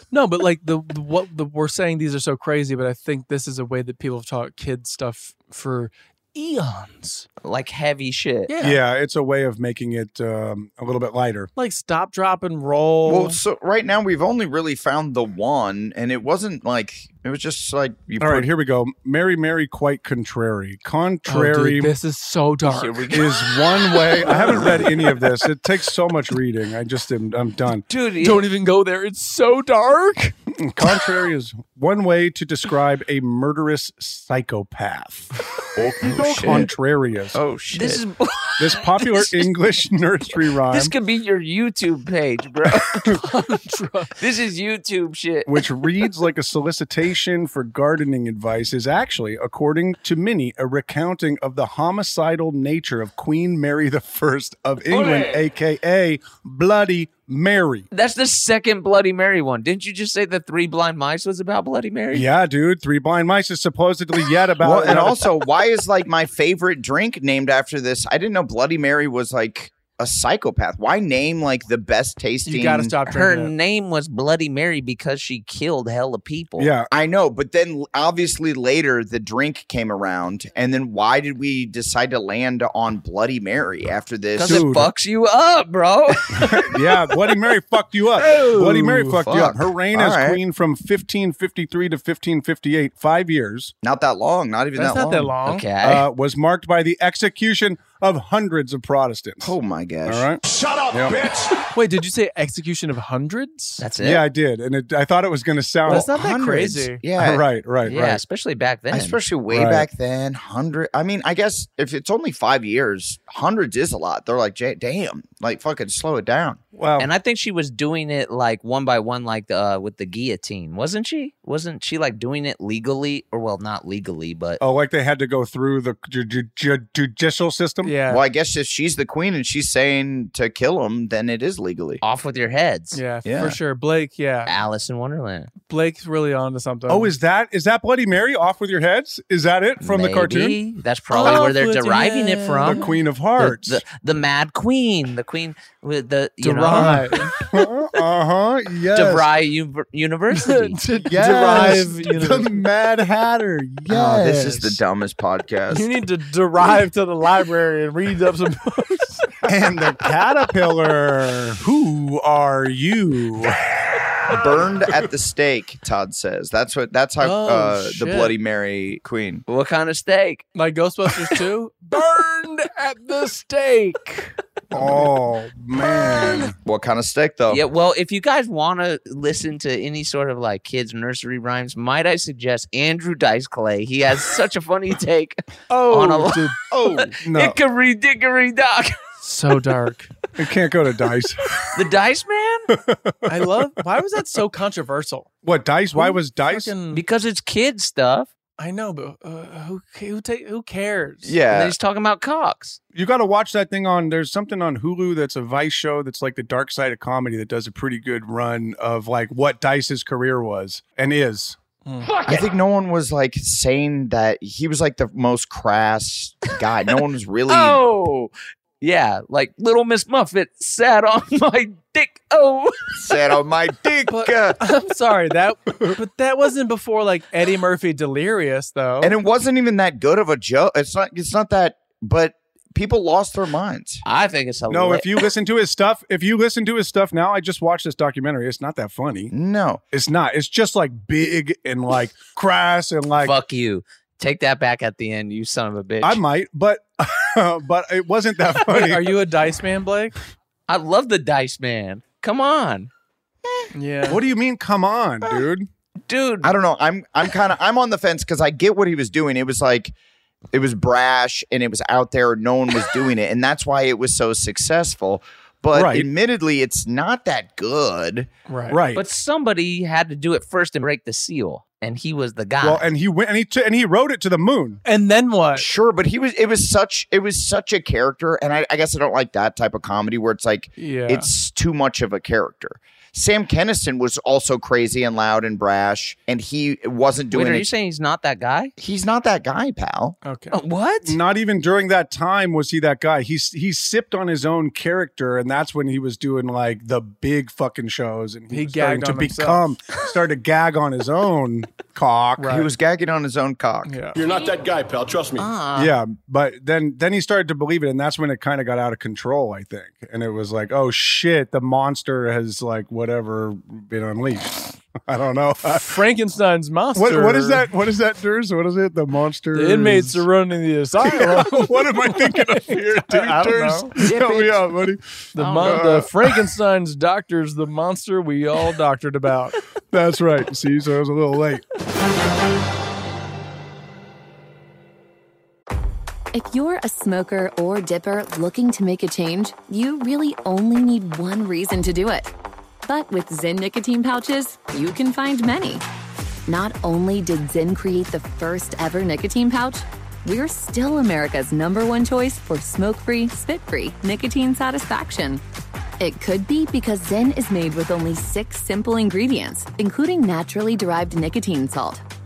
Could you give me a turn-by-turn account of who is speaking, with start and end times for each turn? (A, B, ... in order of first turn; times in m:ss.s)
0:00.1-0:07.3 A
0:07.4-0:08.5 B
0:08.5-0:08.8 A
0:08.6-0:11.5 C
0:11.6-0:13.4 A
0:13.0-0:18.5 D
0:18.2-0:21.9 C
0:21.3-0:23.0 A
0:22.6-0:24.8 B
0:23.1-0:27.9 C
0:24.4-0:25.2 A
0:27.9-0:28.4 B
0:28.2-0:30.4 A
0:30.6-0:37.4 C
0:36.0-0:36.7 B
0:37.4-0:38.0 D
0:37.7-0:39.6 B
0:38.6-0:40.9 C
0:40.5-0:43.1 B
0:42.9-0:43.1 C
0:43.2-0:44.1 A
0:44.2-0:45.7 B
0:45.5-0:57.9 C
0:54.9-0:55.4 E
0:57.9-1:02.3 B
1:02.1-1:05.3 C
1:04.6-1:13.0 D
1:12.5-1:13.5 A
1:13.1-1:16.7 B
1:16.6-1:16.9 C
1:16.9-1:24.7 D
1:24.4-1:26.7 B
1:24.4-1:24.9 C
1:26.4-1:33.7 C
1:28.3-1:29.2 A
1:29.0-1:30.4 D
1:33.8-1:35.4 D
1:34.8-1:35.7 A
1:35.4-1:36.1 B
1:35.8-1:39.5 C
1:39.4-1:40.3 D
1:40.1-1:40.4 C
1:40.4-1:41.6 E
1:40.9-1:41.2 C
1:41.7-1:43.9 A
1:43.8-1:44.3 B
1:44.0-1:46.1 C
1:45.8-1:47.0 A
1:45.9-1:47.4 D
1:47.2-1:48.2 C
1:47.8-1:49.2 B
1:48.9-1:56.6 D
1:49.5-1:49.9 C
1:56.7-1:57.1 C
1:57.0-2:04.6 B
2:04.6-2:08.0 C
2:07.8-2:08.2 A
2:08.1-2:12.0 D
2:12.0-2:13.0 B
2:12.9-2:14.5 A
2:13.2-2:13.6 D
2:14.5-2:15.5 B
2:15.7-2:17.2 A
2:16.9-2:20.6 C
2:19.8-2:27.0 B
2:21.1-2:23.0 A
2:22.6-2:23.8 C
2:26.4-2:27.4 A
2:26.7-2:29.3 C
2:28.9-2:30.8 B
2:30.3-2:32.7 A
2:31.0-2:34.8 C
2:33.9-2:35.9 D
2:35.7-2:39.4 A
2:39.4-2:43.7 C
2:44.3-2:49.4 D
2:47.2-2:48.4 A
2:49.5-2:50.4 B
2:50.6-2:55.0 A
2:54.7-2:56.6 C
2:56.6-2:57.6 D
2:57.5-3:09.0 B
3:05.7-3:06.6 A
3:06.7-3:07.1 D
3:07.2-3:07.6 C
3:09.2-3:10.1 A
3:10.4-3:11.7 C
3:11.7-3:12.7 B
3:12.7-3:13.8 C
3:13.3-3:15.4 A
3:15.4-3:16.7 C
3:15.9-3:17.0 A
3:16.9-3:18.3 B
3:18.6-3:21.4 A
3:21.2-3:21.8 D
3:21.5-3:22.8 B
3:22.9-3:31.6 C
3:31.8-3:32.2 A
3:32.3-3:37.8 D
3:37.5-3:43.2 B
3:43.0-3:44.6 D
3:44.1-3:49.2 A
3:49.0-3:54.0 D
3:54.1-3:55.2 B
3:54.7-3:59.3 C
3:59.3-3:59.8 D
3:59.9-4:03.4 C
4:03.2-4:06.2 B
4:06.0-4:09.2 C
4:08.6-4:10.2 A
4:10.7-4:12.9 B
4:13.7-4:14.3 A
4:14.1-4:15.7 C
4:16.1-4:16.5 B
4:16.4-4:19.9 D
4:20.5-4:28.3 D
4:25.7-4:26.1 C
4:28.5-4:28.8 A
4:28.7-4:29.0 C
4:28.9-4:32.9 B
4:32.6-4:34.8 C
4:34.8-4:35.7 A
4:35.6-4:47.7 D
4:40.8-4:41.3 A
4:47.3-4:48.7 B
4:48.8-4:50.2 D
4:50.2-4:50.6 A
4:50.5-4:51.2 B
4:51.0-5:02.5 C
4:58.5-4:59.7 A
5:02.4-5:02.7 A
5:02.5-5:04.0 D
5:03.9-5:04.2 A
5:04.2-5:05.5 E
5:05.4-5:05.9 B
5:05.8-5:16.0 C
5:15.7-5:17.7 A
5:17.0-5:20.3 C
5:19.5-5:24.1 A
5:21.0-5:26.4 C
5:25.3-5:29.6 A
5:25.4-5:25.9 B
5:29.9-5:31.6 C
5:36.3-5:42.3 F
5:42.9-5:45.8 F
5:46.5-5:55.4 F
5:56.0-6:02.0 F